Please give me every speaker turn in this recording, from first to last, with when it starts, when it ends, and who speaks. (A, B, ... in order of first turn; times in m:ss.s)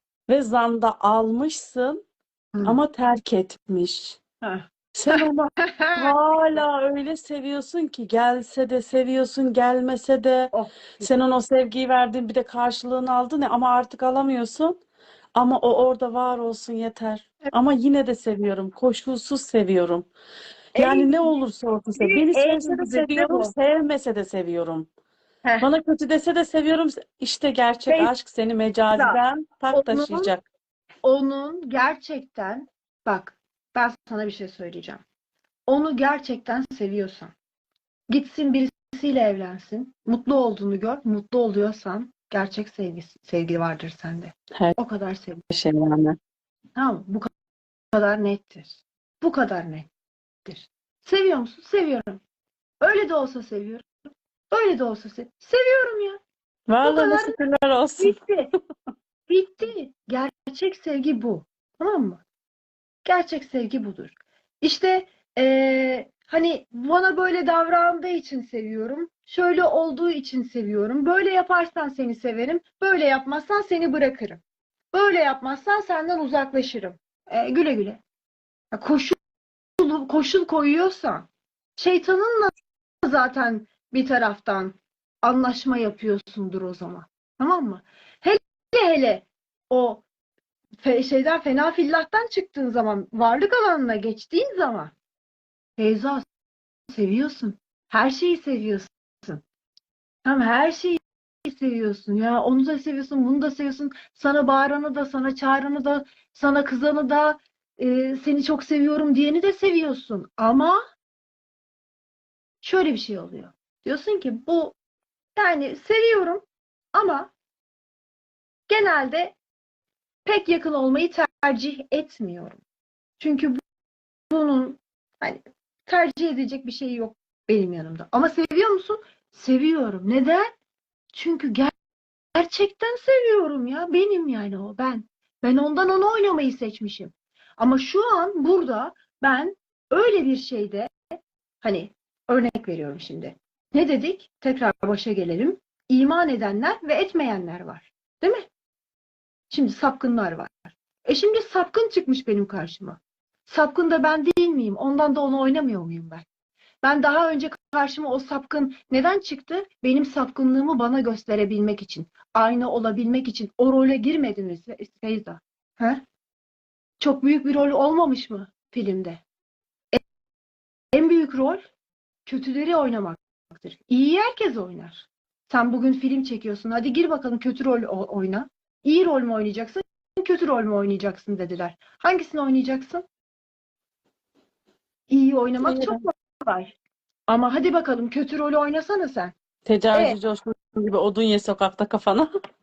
0:00.3-0:02.0 A
0:02.5-0:02.8 B
0:02.6-0:04.2 A
0:04.4-0:06.1 B
0:04.9-0:14.8 A
0:10.5-0:11.1 B
0:15.3-0:20.1 A
0:20.7-0:24.9 A
0:20.8-0:21.4 B
0:22.0-0:23.5 B
0:25.4-0:25.7 B
0:25.6-0:30.4 A
0:28.9-0:29.2 B
0:29.7-0:30.3 B
0:31.0-0:35.0 B
0:35.7-0:37.3 B
0:38.1-0:45.4 B
0:45.5-0:46.2 A
0:46.8-0:47.3 B
0:47.9-0:49.9 B
0:50.4-0:52.2 B
0:52.8-0:53.9 B
0:54.5-0:56.2 B
0:56.7-0:58.2 A
0:56.8-0:57.4 B
0:58.0-0:58.5 B
0:59.3-1:02.2 B
1:03.0-1:14.4 B
1:14.9-1:18.0 B
1:18.7-1:19.2 B
1:19.8-1:30.0 B
1:30.8-1:34.9 B
1:35.8-1:36.2 B
1:36.9-1:39.4 B
1:40.2-1:50.8 B
1:52.6-1:54.8 B
1:55.4-1:57.3 B
1:58.7-1:59.4 B
2:00.2-2:02.6 B
2:03.2-2:03.6 B
2:04.3-2:10.5 B
2:11.1-2:11.7 B
2:12.3-2:20.9 B
2:21.6-2:28.5 B
2:29.5-2:36.2 B
2:36.8-2:46.0 B
2:47.0-2:49.2 B
2:50.9-2:51.6 B
2:52.2-3:03.0 B
3:05.1-3:06.8 B
3:05.6-3:06.0 A
3:07.3-3:09.3 B
3:09.6-3:12.3 A
3:09.9-3:10.2 B